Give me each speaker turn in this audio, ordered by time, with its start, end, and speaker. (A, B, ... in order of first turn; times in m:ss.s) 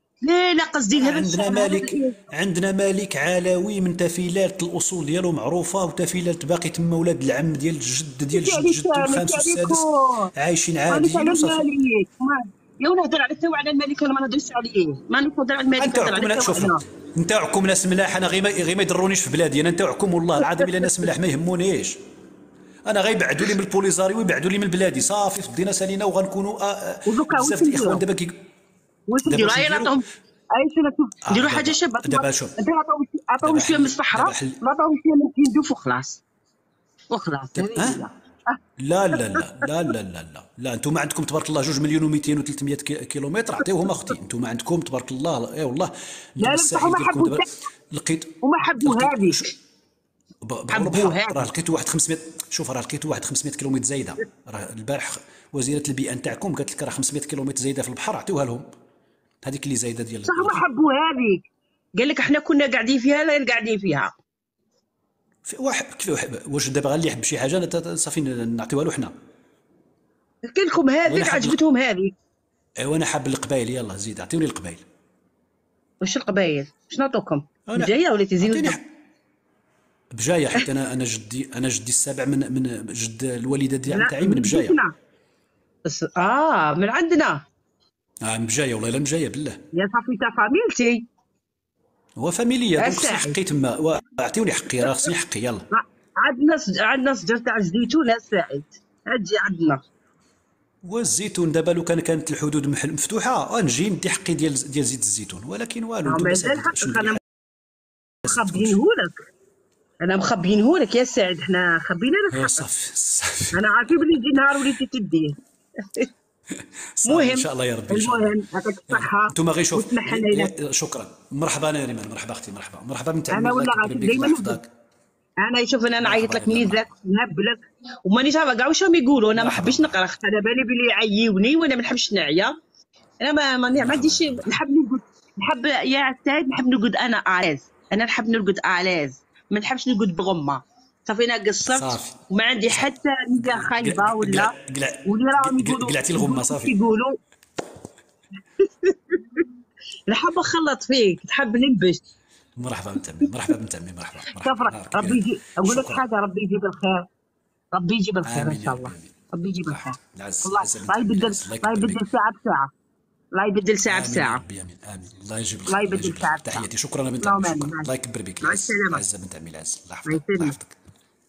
0:00.2-0:02.2 A
0:01.0-0:11.7 B
0:08.3-0:10.3 A
0:10.9-0:16.8 A
0:15.8-0:22.0 B
0:20.5-0:20.9 A
0:22.9-0:28.4 B
0:27.1-0:28.0 A
0:29.1-0:36.2 A
0:29.2-0:30.0 B
0:31.3-0:32.6 B
0:33.4-0:34.6 B
0:37.1-0:38.1 A
0:37.6-0:38.0 B
0:38.8-0:49.5 B
0:39.2-0:39.7 A
0:46.4-0:47.5 A
0:48.4-0:49.5 A
0:50.4-0:58.7 B
0:50.7-0:51.5 A
0:59.4-1:00.6 B
1:00.3-1:04.1 A
1:05.4-1:09.1 B
1:10.5-1:12.1 A
1:11.1-1:11.6 B
1:12.8-1:14.8 B
1:16.0-1:18.8 A
1:17.7-1:18.8 B
1:20.2-1:24.8 B
1:23.9-1:24.9 A
1:25.8-1:27.4 A
1:28.2-1:29.6 B
1:29.7-1:31.1 A
1:32.2-1:35.7 B
1:32.8-1:33.4 A
1:35.7-1:39.8 A
1:40.8-1:47.2 B
1:46.1-1:47.2 A
1:48.2-1:48.8 B
1:48.2-1:49.3 A
1:50.0-1:52.6 A
1:52.3-1:53.5 B
1:53.5-1:56.1 A
1:56.6-1:58.3 B
1:57.1-2:00.5 A
1:58.9-2:04.7 B
2:03.3-2:04.6 A
2:05.4-2:12.6 A
2:06.0-2:06.9 B
2:09.4-2:10.0 B
2:13.2-2:24.5 A
2:13.7-2:14.5 B
2:21.6-2:26.7 B
2:25.1-2:27.2 A
2:28.6-2:29.5 A
2:30.1-2:32.0 A
2:32.6-2:36.0 B
2:34.4-2:37.1 A
2:37.7-2:42.7 A
2:38.2-2:39.1 B
2:39.7-2:42.0 B
2:43.3-2:44.4 A
2:43.9-2:50.8 B
2:45.7-2:46.6 A
2:47.2-2:47.9 A
2:48.4-2:49.0 A
2:50.0-2:50.6 A